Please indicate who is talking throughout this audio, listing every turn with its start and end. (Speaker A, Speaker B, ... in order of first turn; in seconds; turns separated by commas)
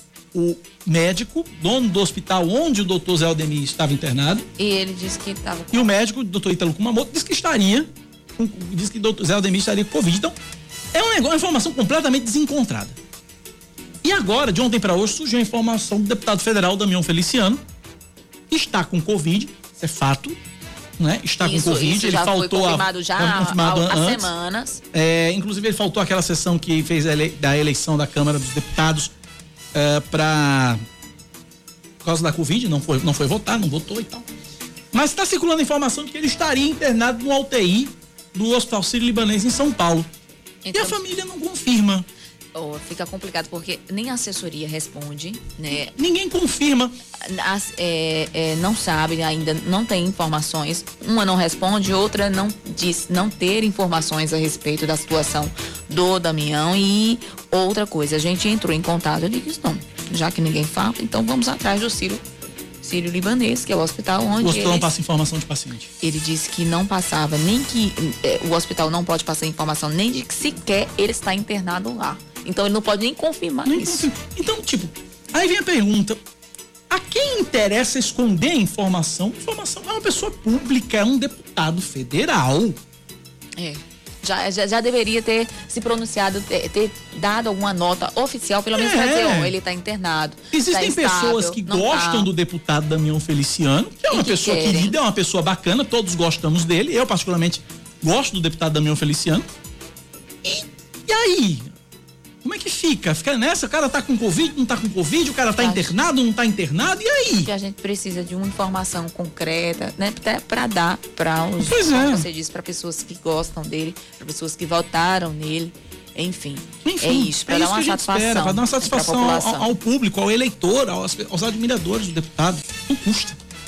Speaker A: 0.3-4.5, Speaker B: 4.6-5.9, Speaker A: 5.7-10.3, Speaker A: 10.9-13.0, Speaker A: 14.0-17.6, Speaker A: 18.5-20.4, Speaker A: 21.0-24.3, Speaker B: 21.4-24.8, Speaker A: 24.9-29.1, Speaker A: 29.7-30.8, Speaker A: 32.0-34.3, Speaker A: 34.9-40.1, Speaker B: 40.6-41.0, Speaker A: 40.7-42.1, Speaker B: 42.5-45.9, Speaker A: 46.0-47.0, Speaker B: 47.2-62.2, Speaker B: 62.8-64.9, Speaker A: 64.4-65.9, Speaker B: 66.0-74.0, Speaker A: 73.7-76.2, Speaker A: 76.9-82.8, Speaker B: 83.6-92.3, Speaker A: 88.7-89.5, Speaker A: 90.5-99.5, Speaker B: 94.1-95.0, Speaker A: 100.4-101.7, Speaker A: 102.4-107.5, Speaker B: 105.6-106.0, Speaker B: 107.4-119.7, Speaker A: 111.6-112.2, Speaker A: 116.8-123.4